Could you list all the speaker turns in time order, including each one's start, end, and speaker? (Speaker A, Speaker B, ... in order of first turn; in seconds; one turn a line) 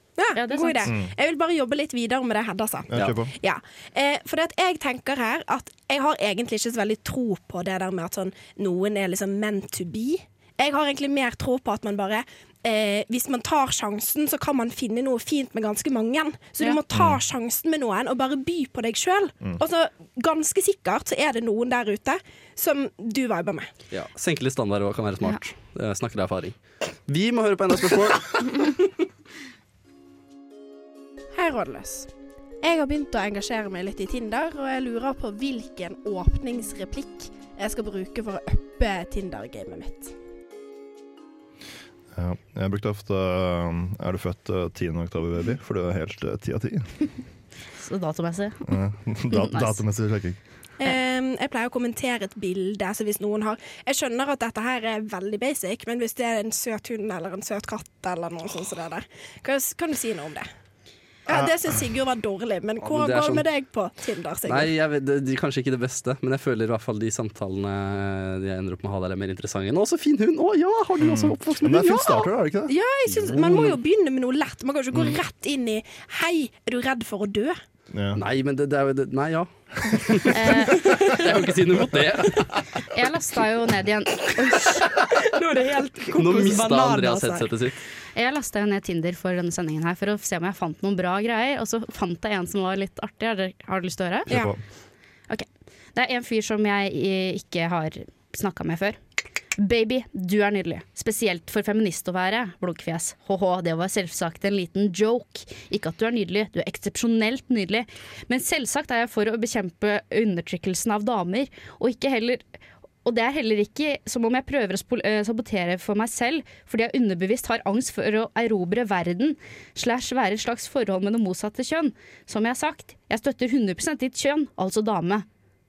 Speaker A: 0.2-23.7
Speaker B: 0.3-0.9
Speaker C: 2.9-3.3
Speaker C: 16.9-17.2
Speaker D: 23.9-28.7
Speaker A: 31.3-32.1
Speaker A: 32.6-40.1
Speaker C: 42.1-46.9
Speaker B: 47.8-48.7
Speaker C: 48.6-50.4
Speaker B: 49.3-49.8
Speaker A: 50.8-60.5
Speaker C: 61.3-61.5
Speaker A: 61.3-64.7
Speaker D: 62.8-63.4
Speaker D: 64.5-72.2
Speaker C: 71.0-72.7
Speaker A: 72.0-77.6
Speaker D: 73.1-73.8
Speaker C: 77.9-78.2
Speaker D: 78.1-82.7
Speaker B: 80.3-81.2
Speaker B: 82.8-84.9
Speaker E: 85.3-87.5
Speaker D: 86.1-87.8
Speaker B: 88.1-94.3
Speaker C: 94.3-94.6
Speaker A: 94.3-94.5
Speaker B: 95.3-99.0
Speaker B: 99.5-112.5
Speaker B: 113.0-125.2